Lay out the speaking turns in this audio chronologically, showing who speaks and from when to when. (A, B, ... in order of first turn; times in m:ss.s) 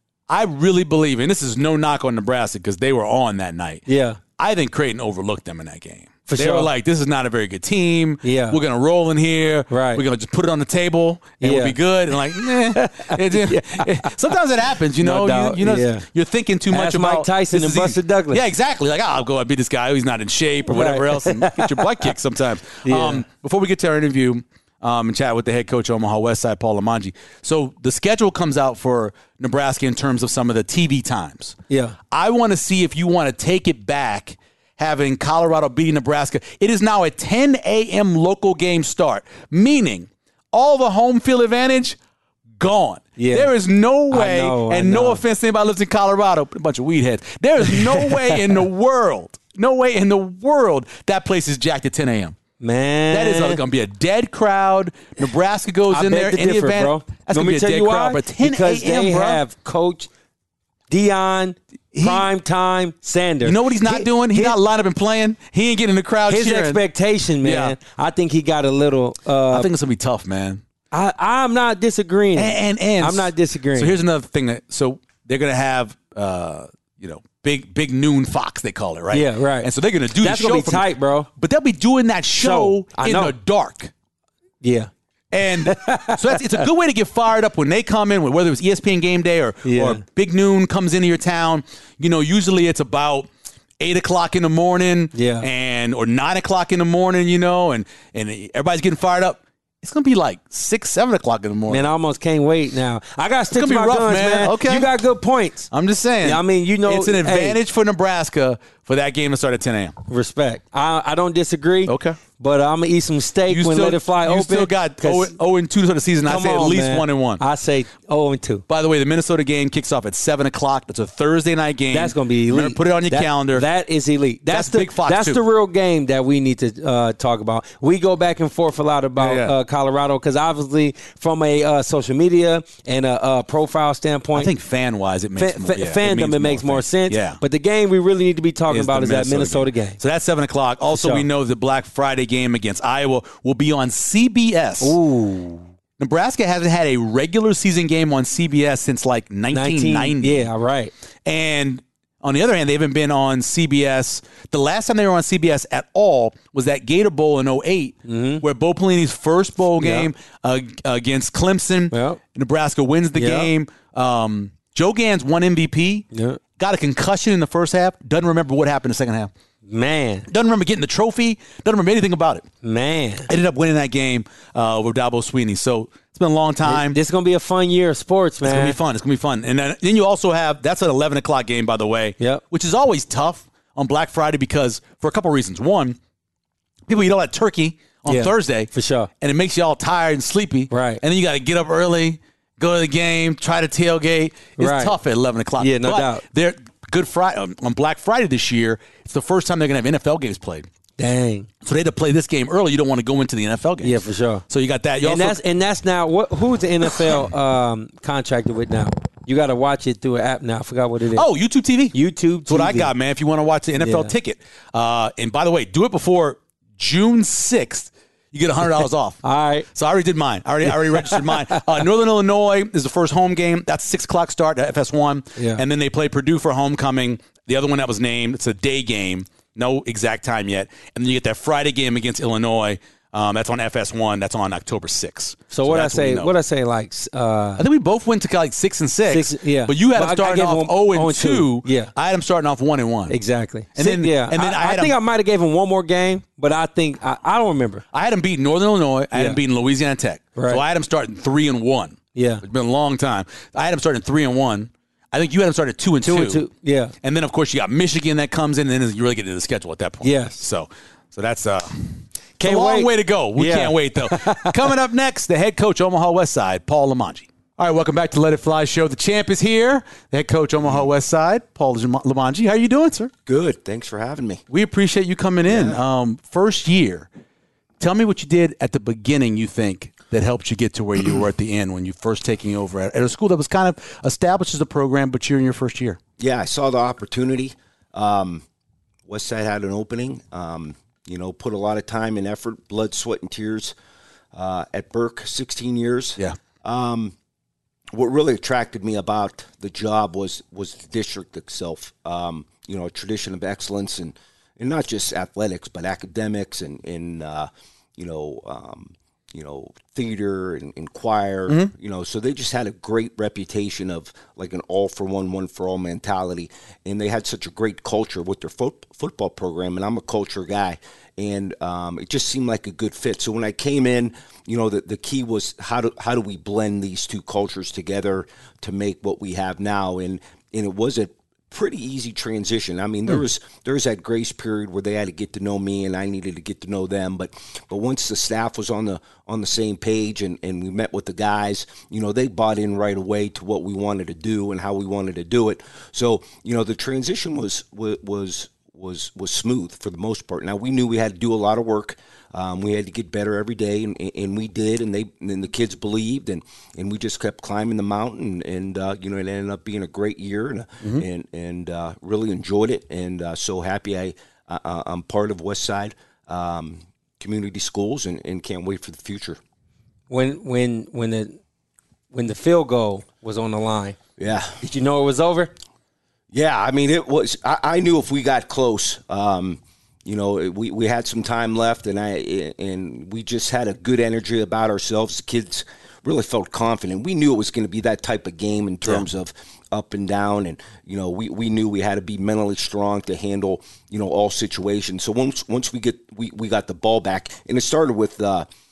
0:00.3-0:03.8 A
0:03.9-0:04.2 B
0:04.4-0:31.6 A
0:06.3-0:06.7 B
0:08.2-0:08.6 B
0:09.7-0:10.0 B
0:11.4-0:14.1 B
0:15.0-0:16.0 B
0:16.7-0:18.4 B
0:20.7-0:22.1 B
0:22.8-0:23.2 B
0:31.7-0:32.0 B
0:32.1-0:42.0 A
0:42.6-0:52.4 A
0:43.2-0:43.5 B
0:44.1-0:45.2 B
0:47.7-0:48.5 B
0:52.6-0:53.6 B
0:53.1-0:59.4 A
0:55.9-1:00.1 B
1:00.9-1:04.6 B
1:01.9-1:02.3 A
1:03.4-1:06.8 A
1:06.3-1:09.7 B
1:07.4-1:07.8 A
1:09.5-1:10.6 A
1:10.9-1:14.0 B
1:12.3-1:23.9 A
1:19.1-1:19.7 B
1:20.2-1:21.3 B
1:22.4-1:23.3 B
1:24.6-1:24.9 B
1:25.3-1:33.3 A
1:25.5-1:26.7 B
1:29.6-1:30.0 B
1:33.8-1:41.9 A
1:35.1-1:35.5 B
1:41.7-1:45.7 B
1:43.5-1:44.9 A
1:45.7-1:50.0 A
1:46.2-1:47.6 B
1:50.1-1:55.3 B
1:51.8-1:52.2 A
1:53.5-1:57.4 A
1:56.2-1:58.6 B
1:58.7-2:03.6 A
2:01.9-2:14.5 B
2:04.5-2:05.4 A
2:09.2-2:09.5 A
2:14.3-2:17.4 A
2:15.4-2:20.0 B
2:18.7-2:25.0 A
2:20.9-2:21.2 B
2:24.8-2:25.6 B
2:26.0-2:30.5 A
2:29.5-2:30.9 B
2:31.2-2:46.0 A
2:38.0-2:38.4 B
2:39.8-2:40.1 B
2:41.9-2:42.2 B
2:43.2-2:43.5 B
2:46.1-2:46.4 B
2:46.6-2:49.3 A
2:49.7-2:50.3 B
2:50.3-2:52.4 A
2:52.6-2:53.3 B
2:53.2-2:57.0 A
2:56.6-2:58.8 B
2:58.4-3:06.0 A
3:06.9-3:08.7 A
3:08.0-3:09.1 B
3:09.2-3:20.7 A
3:10.7-3:11.0 B
3:14.6-3:15.0 B
3:15.6-3:16.2 B
3:21.0-3:21.5 B
3:21.6-3:24.0 A
3:23.8-3:24.4 B
3:24.5-3:25.4 A
3:25.0-3:31.2 B
3:31.1-3:31.9 A
3:31.9-3:32.9 B
3:32.5-3:39.2 A
3:33.8-3:34.1 B
3:39.2-3:39.7 B
3:39.7-3:56.3 A
3:40.7-3:41.6 B
3:45.4-3:45.6 B
3:55.5-3:57.6 B
3:57.6-4:03.2 A
3:59.1-4:01.9 B
4:03.1-4:07.8 B
4:03.8-4:05.0 A
4:07.9-4:16.4 A
4:09.1-4:09.4 B
4:10.4-4:10.6 B
4:12.1-4:12.4 B
4:16.0-4:16.9 B
4:17.0-4:33.1 A
4:20.0-4:20.4 B
4:22.4-4:24.7 B
4:33.2-4:34.4 C
4:34.5-4:37.1 A
4:35.5-4:35.8 C
4:37.8-4:46.0 A
4:46.2-4:48.4 C
4:49.0-4:53.7 C
4:54.3-4:57.1 C
4:57.9-6:09.4 C
6:10.1-6:11.4 B
6:12.1-6:14.0 B
6:14.2-6:14.6 C
6:14.6-6:15.5 B
6:16.3-6:38.5 C